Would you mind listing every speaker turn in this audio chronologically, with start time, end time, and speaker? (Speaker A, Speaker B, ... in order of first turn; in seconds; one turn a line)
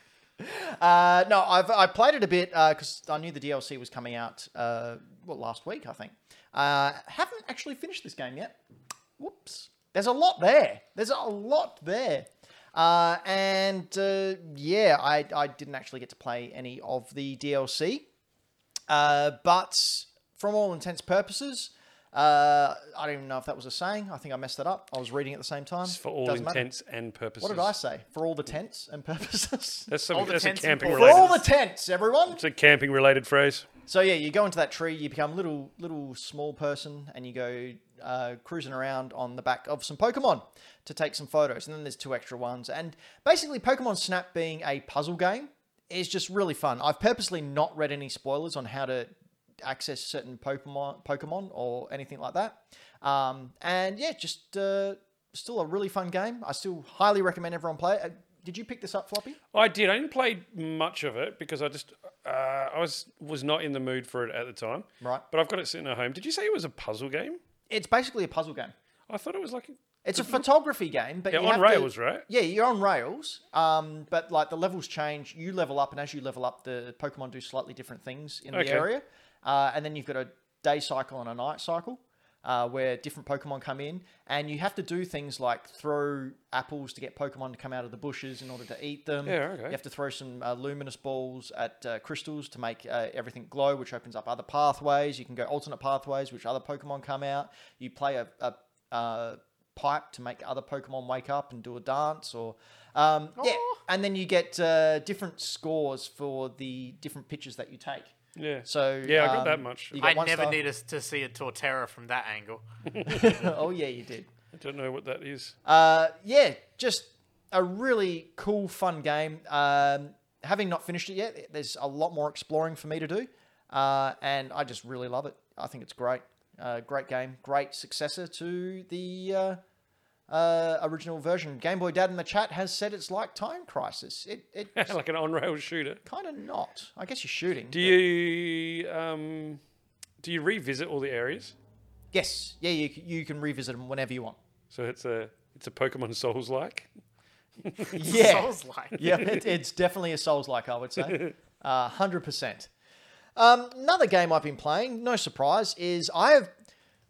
Speaker A: 0.4-8.5
Speaker A: 9.2-18.1
Speaker A: 18.9-26.6
Speaker B: 25.8-27.7
Speaker A: 27.4-29.9
Speaker B: 29.9-31.4
Speaker C: 30.1-31.4
Speaker A: 30.9-32.4
Speaker B: 32.3-33.7
Speaker A: 33.9-49.1
Speaker A: 49.6-59.4
Speaker B: 59.5-67.4
Speaker A: 67.7-68.7
Speaker B: 69.1-70.4
Speaker A: 70.0-108.1
Speaker B: 71.3-72.2
Speaker B: 78.5-78.9
Speaker B: 89.2-89.8
Speaker C: 103.4-103.8
Speaker B: 108.3-110.0
Speaker A: 108.7-110.6
Speaker C: 110.0-112.6
Speaker B: 112.9-113.4
Speaker A: 113.0-114.3
Speaker B: 114.5-115.5
Speaker A: 115.6-129.6
Speaker A: 130.3-134.9
Speaker B: 134.8-136.0
Speaker A: 136.1-137.9
Speaker B: 137.7-139.6
Speaker B: 140.2-141.5
Speaker A: 142.1-144.4
Speaker B: 144.7-146.9
Speaker B: 147.6-148.0
Speaker A: 147.9-152.7
Speaker C: 147.9-149.0
Speaker B: 151.1-151.3
Speaker A: 153.3-156.5